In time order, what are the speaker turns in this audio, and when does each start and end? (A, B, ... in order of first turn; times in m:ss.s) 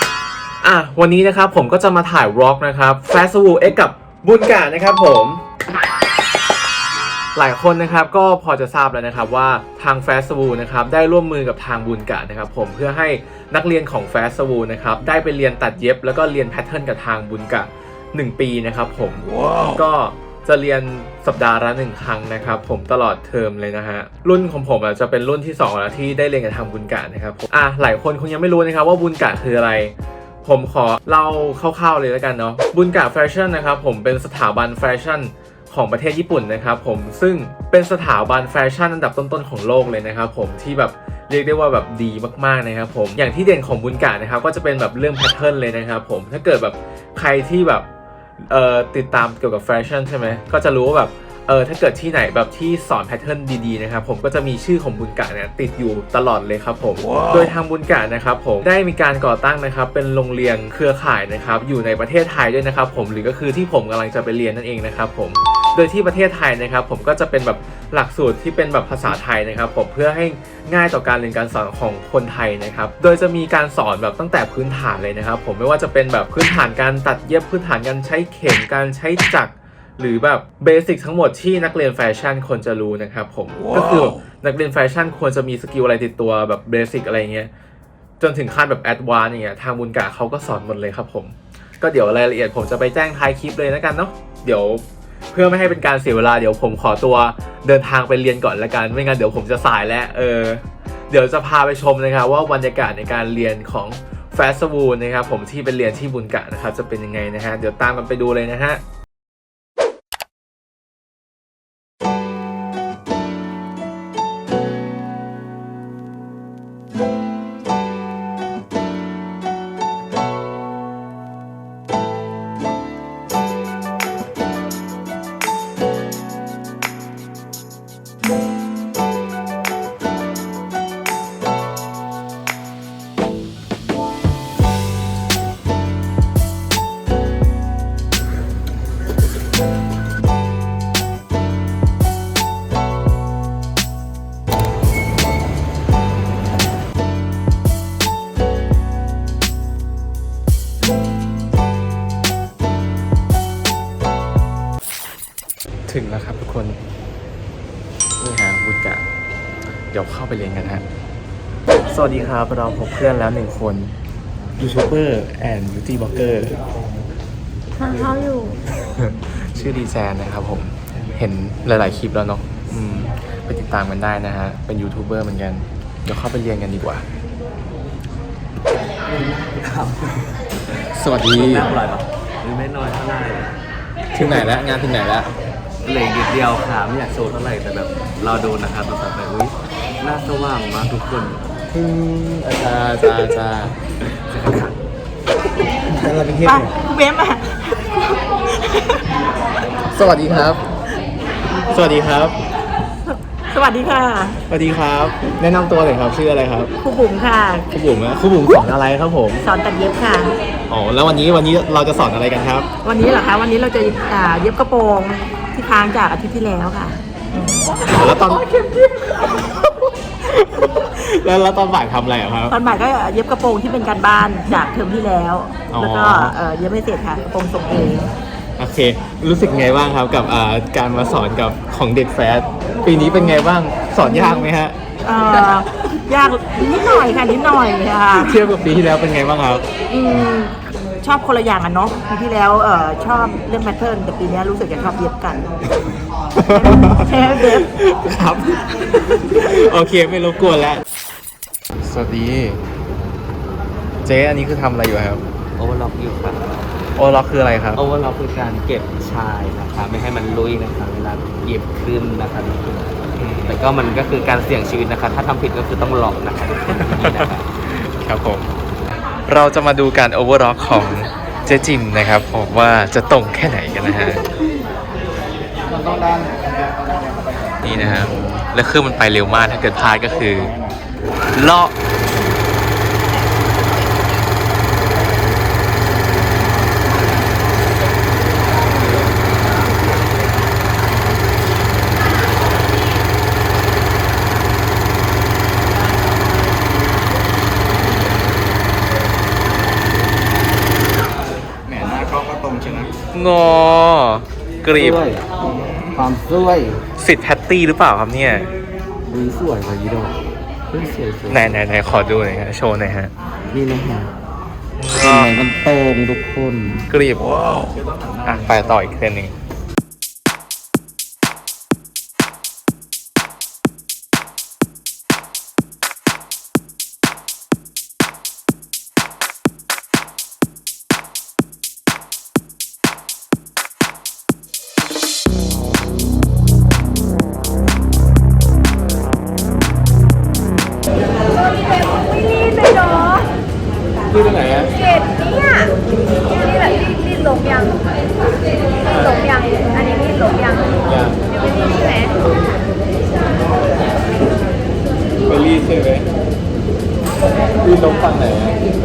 0:00.6-0:05.4 A
0:07.4-0:47.9 A
0:48.4-1:27.5 A
1:28.2-1:48.8 A
2:35.9-2:36.8 A
2:38.2-2:39.1 A
2:39.9-2:40.8 A
2:41.9-2:44.0 A
2:44.6-2:46.6 A
2:48.7-2:57.0 A
2:59.3-3:00.3 B
3:00.9-3:01.8 A
3:01.2-3:03.6 B
3:04.1-3:05.3 A
3:05.8-3:11.4 B
3:11.7-3:13.8 A
3:15.9-3:16.7 B
3:16.4-3:19.1 C
3:19.9-3:20.6 A
3:21.7-3:22.4 A
3:23.5-3:24.4 C
3:24.5-3:26.7 A
3:26.8-3:27.7 C
3:27.7-3:29.4 A
3:29.4-3:30.3 C
3:30.7-3:32.7 A
3:32.8-3:38.4 C
3:37.8-3:42.6 A
3:42.5-3:48.1 C
3:45.7-3:46.4 A
3:48.6-3:54.8 A
3:54.0-3:54.5 C
3:55.0-3:58.5 C
3:58.1-3:59.7 A
3:59.9-4:05.5 C
4:06.4-4:10.8 A
4:06.5-4:07.7 C
4:11.8-4:12.6 A
4:14.0-4:15.2 A
4:15.6-4:16.4 B
4:17.0-4:17.8 A
4:17.8-4:22.9 B
4:23.2-4:23.6 A
4:23.5-4:27.4 B
4:26.7-4:28.5 A
4:29.2-4:34.2 A
4:35.7-4:37.6 B
4:37.6-4:40.5 A
4:40.4-4:40.7 B
4:41.3-4:41.7 A
5:01.7-5:02.9 B
5:03.1-5:05.0 A
5:04.8-5:05.2 B
5:05.9-5:06.8 B
5:07.0-5:08.5 A
5:09.1-5:11.5 B
5:11.3-5:13.1 A
5:13.5-5:14.1 B
5:14.8-5:15.3 A
5:15.0-5:16.8 B
5:16.9-5:17.4 A
5:17.7-5:18.8 B
5:18.2-5:19.3 A
5:41.6-5:43.2 D
5:44.1-5:44.8 A
5:44.8-5:45.7 D
5:46.4-5:47.8 D
5:48.8-5:49.3 A
5:49.1-5:50.8 D
5:50.8-5:51.2 A
5:51.3-5:52.2 D
5:55.2-5:56.1 A
5:57.6-5:58.6 A